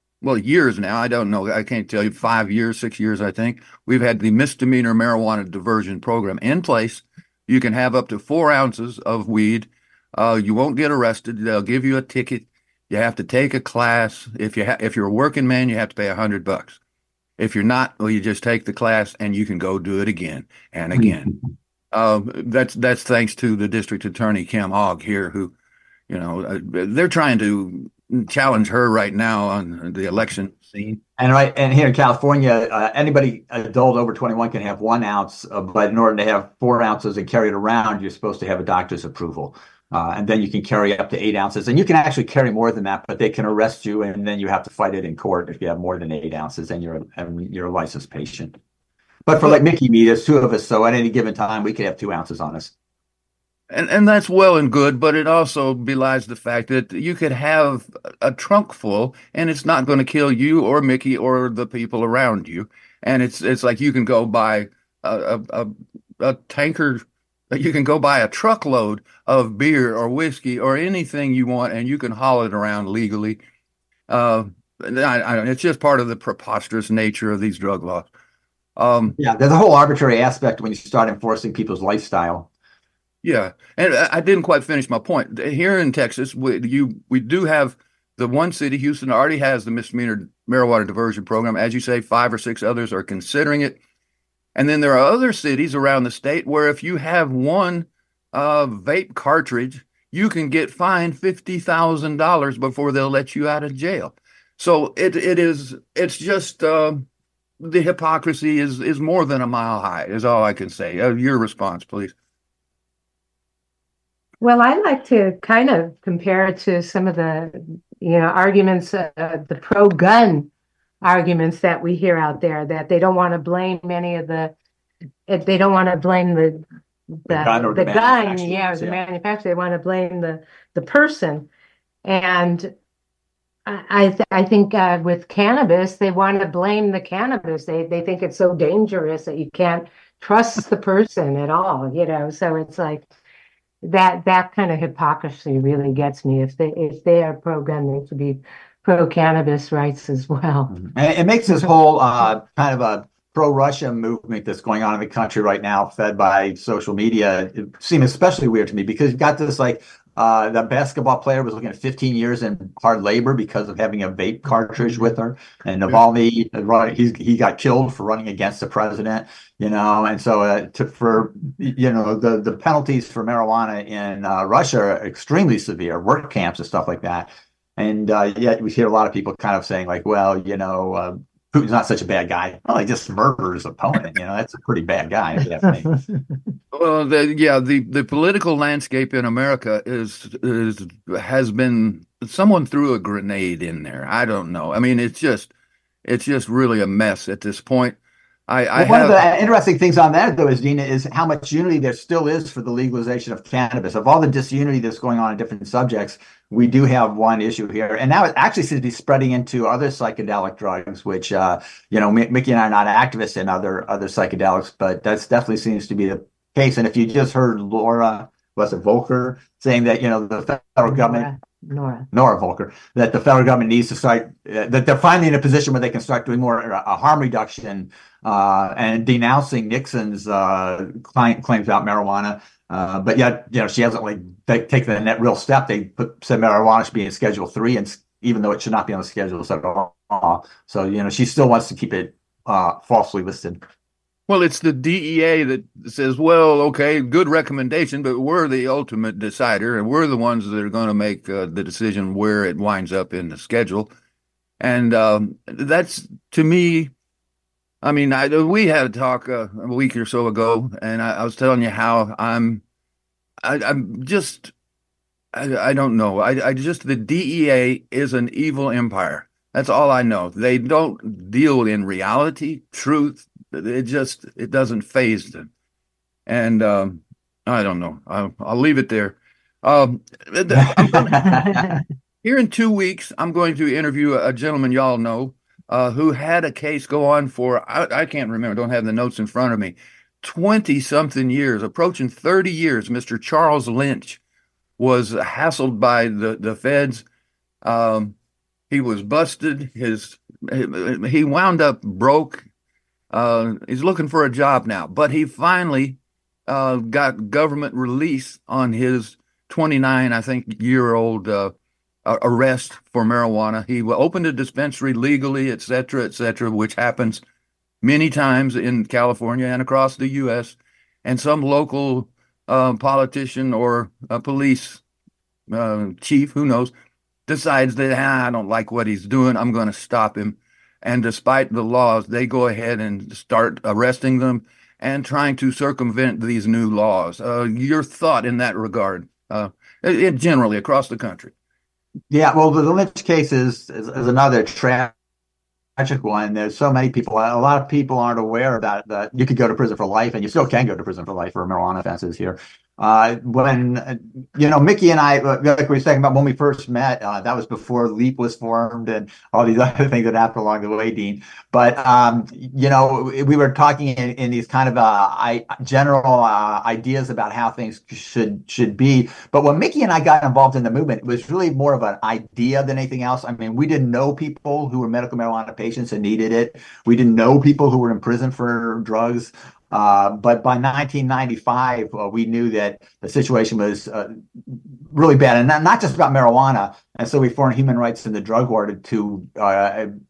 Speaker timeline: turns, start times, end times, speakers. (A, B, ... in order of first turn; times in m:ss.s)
0:00.2-0:16.8 A
0:17.4-0:21.4 A
0:21.9-0:25.5 A
0:26.1-0:31.0 A
0:31.2-0:48.6 B
0:49.3-0:52.7 B
0:53.7-1:13.4 A
1:14.1-1:18.1 A
1:18.8-1:19.2 A
1:19.2-1:22.5 B
1:23.2-1:33.8 A
1:34.6-1:47.0 A
1:47.6-1:52.1 A
1:54.4-2:00.5 C
2:01.0-2:04.5 C
2:05.3-2:06.7 C
2:07.3-2:11.5 C
2:07.3-2:09.0 B
2:12.0-2:12.7 C
2:13.7-2:23.1 C
2:23.8-2:30.8 C
2:30.7-3:06.0 B
3:06.7-3:15.5 A
3:16.0-3:18.0 A
3:18.5-3:19.2 A
3:18.8-3:41.3 B
3:40.9-3:42.1 C
3:42.1-4:03.6 B
4:04.3-4:13.9 A
4:14.6-4:16.9 A
4:17.8-4:22.6 A
4:23.4-4:24.5 A
4:25.3-4:35.5 A
4:36.3-4:41.6 A
4:40.6-4:41.6 B
4:42.2-4:54.2 A
4:54.8-4:57.0 A
4:57.6-4:58.1 A
4:58.7-5:02.4 A
5:03.1-5:11.5 A
5:12.0-5:17.2 A
5:17.8-5:24.8 A
5:25.5-5:26.7 A
5:27.3-5:41.3 A
5:42.1-5:44.9 B
5:45.8-6:29.9 B